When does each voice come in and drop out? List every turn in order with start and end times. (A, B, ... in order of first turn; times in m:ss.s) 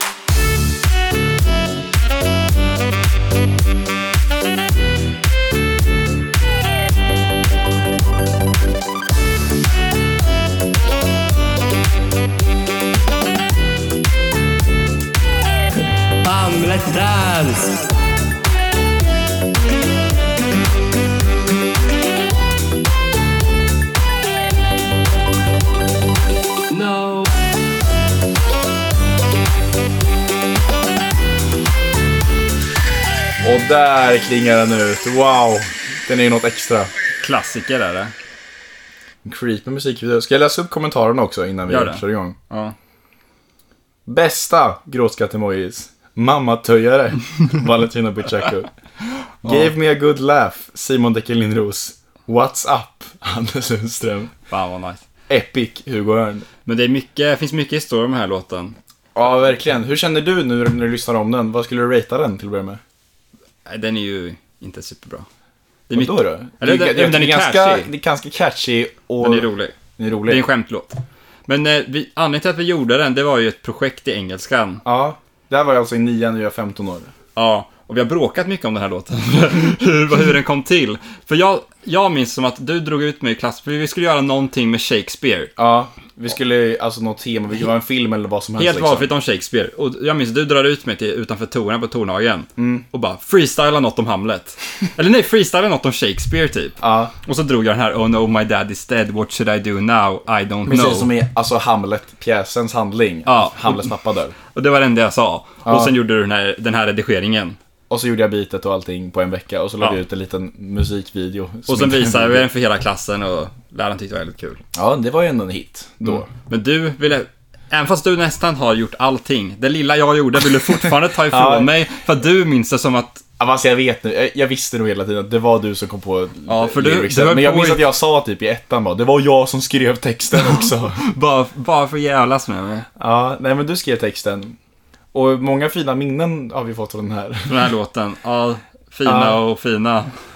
0:16.2-0:17.8 A
0:26.7-0:27.2 A
0:33.4-0:36.9 B
0:37.2-0:38.1 C
0:39.2-0:42.4 B
0:41.7-0:42.7 C
0:44.1-0:48.7 B
0:49.4-0:49.7 C
0:49.4-0:54.3 B
0:54.5-0:55.0 C
0:55.3-0:56.5 B
0:56.6-0:58.8 C
0:59.1-1:02.8 B
1:03.6-1:05.3 C
1:05.9-1:07.9 C
1:05.9-1:10.4 B
1:09.2-1:14.8 C
1:14.8-1:17.1 B
1:17.4-1:25.5 C
1:25.6-1:29.1 B
1:28.6-1:41.1 C
1:32.6-1:32.8 B
1:36.8-1:37.1 B
1:40.6-1:44.4 B
1:43.2-1:43.9 C
1:44.5-1:47.6 C
1:45.6-1:45.9 B
1:47.9-1:52.4 B
1:51.7-1:54.6 C
1:54.7-1:56.3 B
1:56.0-2:03.2 C
2:01.3-2:01.7 B
2:03.4-2:11.0 B
2:06.5-2:07.9 C
2:10.4-2:12.9 C
2:13.0-2:14.6 B
2:15.1-2:17.7 B
2:17.5-2:20.1 C
2:19.0-2:19.4 B